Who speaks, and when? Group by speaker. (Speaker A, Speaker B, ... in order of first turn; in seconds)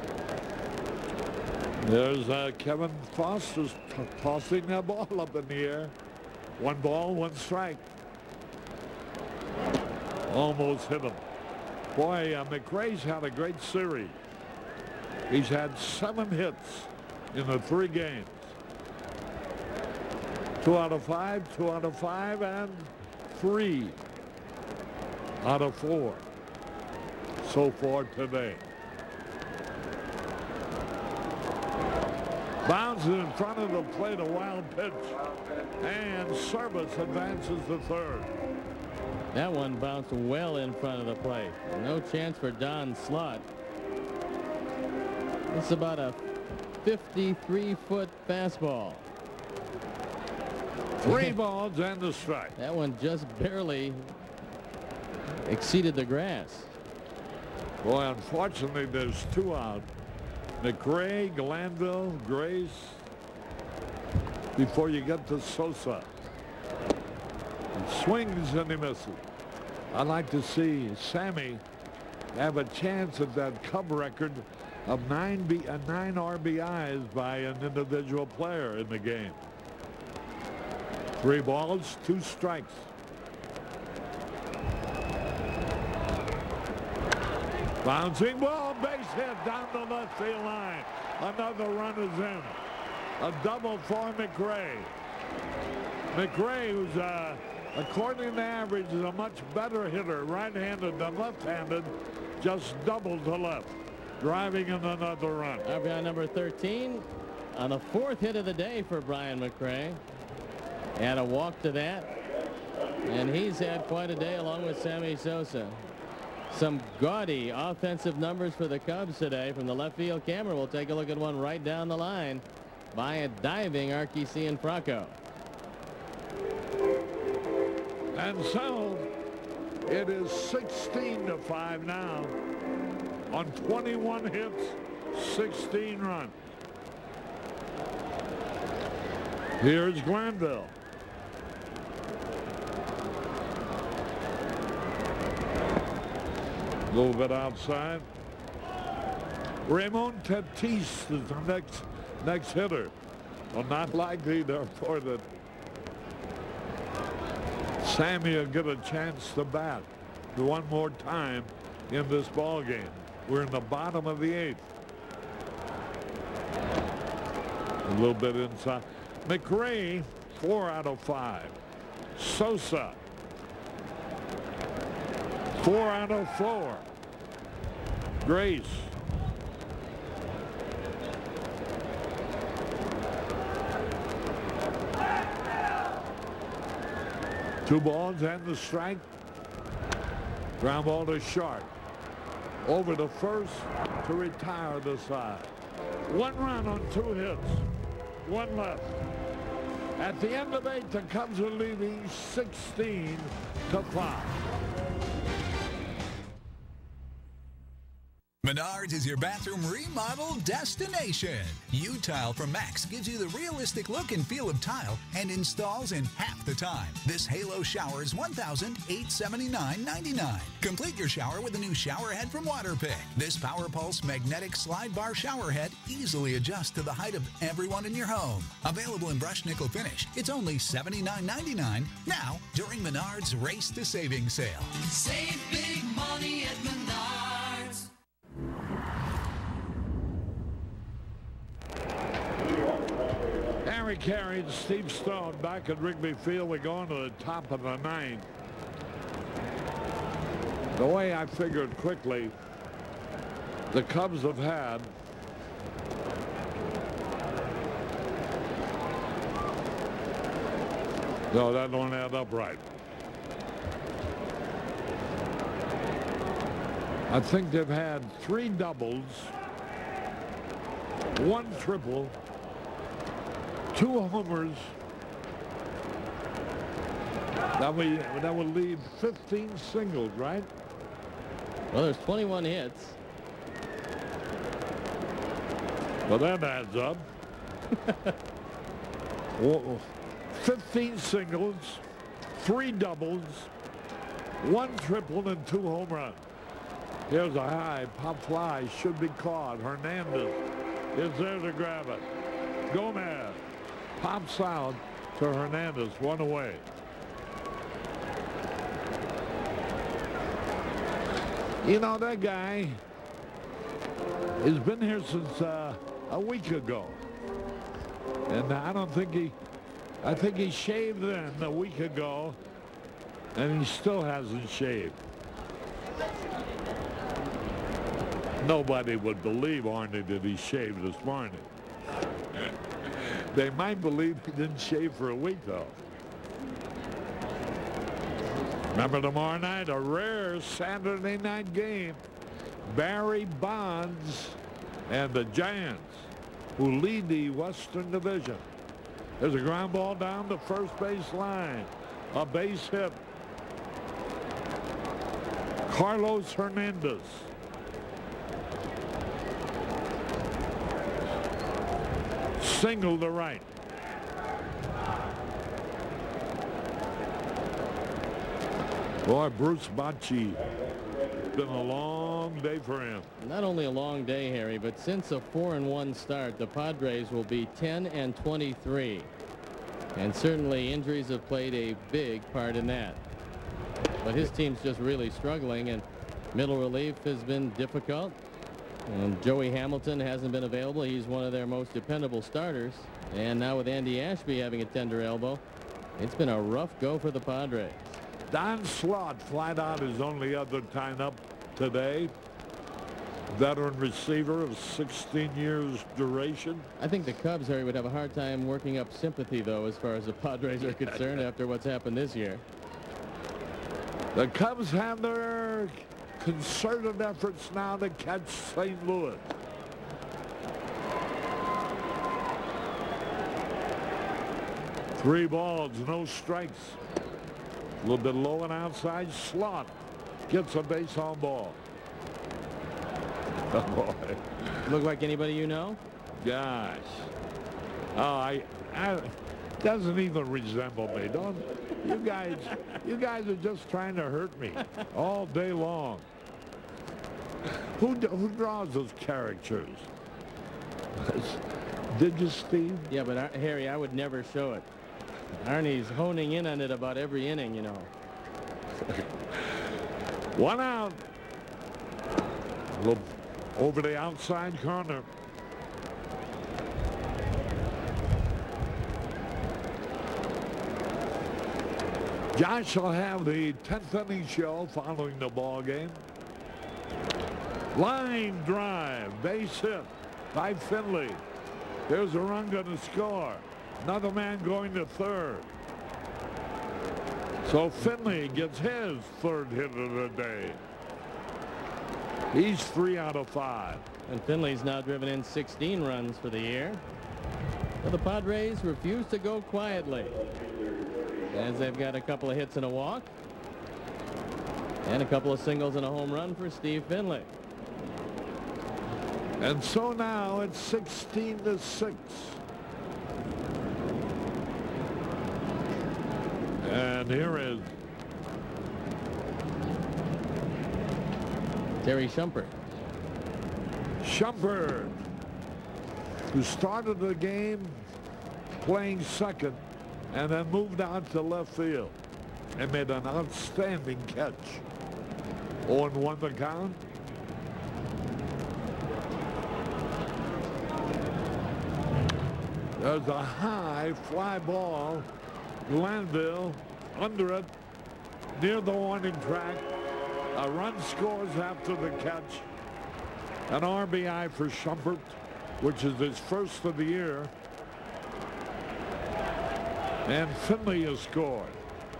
Speaker A: 1.8-5.9, 6.6-7.8, 10.3-11.2, 11.9-14.2, 15.3-18.5, 20.6-24.0, 25.4-26.2, 27.4-28.6, 32.6-35.2, 35.8-38.3, 51.0-52.5, 57.8-59.9, 60.6-63.0, 64.5-66.1, 67.8-69.2, 69.9-71.6, 72.3-79.4, 81.2-82.9, 87.8-92.6, 93.2-94.9, 96.1-105.7, 128.1-129.1, 129.8-132.4, 133.3-136.4, 139.6-140.7, 146.9-148.1, 149.7-152.9, 153.5-155.3, 157.8-164.7, 167.8-171.6, 172.2-173.0, 175.6-176.8, 178.2-178.9, 187.6-189.1, 190.6-191.7, 192.6-195.5, 196.1-197.7, 198.2-199.0, 200.0-204.4, 243.6-248.3, 250.8-252.3, 253.7-254.9, 261.3-262.6, 267.1-269.3, 271.1-272.1, 273.7-274.7, 277.6-280.5, 286.1-287.0, 289.4-291.8, 292.4-293.5, 294.4-296.2, 297.1-300.4, 300.9-302.1, 302.7-303.4, 304.0-306.6, 311.6-312.8, 314.4-317.0, 318.3-319.3, 320.0-322.4, 323.3-325.0, 328.4-331.4, 333.1-335.8, 338.7-342.0, 342.7-348.4, 349.2-353.0, 355.7-357.3, 362.4-363.4, 369.0-370.4, 371.3-373.1, 398.3-402.1, 403.3-406.7, 410.8-411.2, 414.1-419.4, 425.0-426.8, 427.8-429.7, 430.3-431.6, 433.5-434.6, 436.2-437.1, 437.9-446.1, 447.4-449.9, 451.0-452.9, 458.8-459.7, 460.3-461.0, 462.7-465.1, 472.3-476.0, 477.7-481.2, 481.9-485.5, 487.4-490.6, 492.3-493.8, 509.4-512.4, 516.6-517.7, 524.0-525.0, 526.3-527.9, 528.6-532.0, 532.6-534.6, 535.6-536.8, 542.8-545.1, 545.6-547.5, 548.3-549.6, 550.3-552.5, 553.5-557.3, 560.0-561.6
Speaker B: 39.3-43.5, 45.5-46.2, 46.8-49.1, 51.0-51.4, 52.6-54.2, 55.5-56.7, 105.6-110.0, 111.0-112.1, 113.0-115.9, 116.5-125.2, 281.7-283.0, 373.2-379.1, 379.9-383.0, 384.0-388.2, 388.9-395.4, 396.0-398.0, 406.8-412.4, 434.6-435.8, 452.9-454.7, 455.4-457.9, 494.1-496.8, 497.8-500.2, 501.3-503.1, 504.8-507.3, 521.8-522.5
Speaker C: 208.4-237.7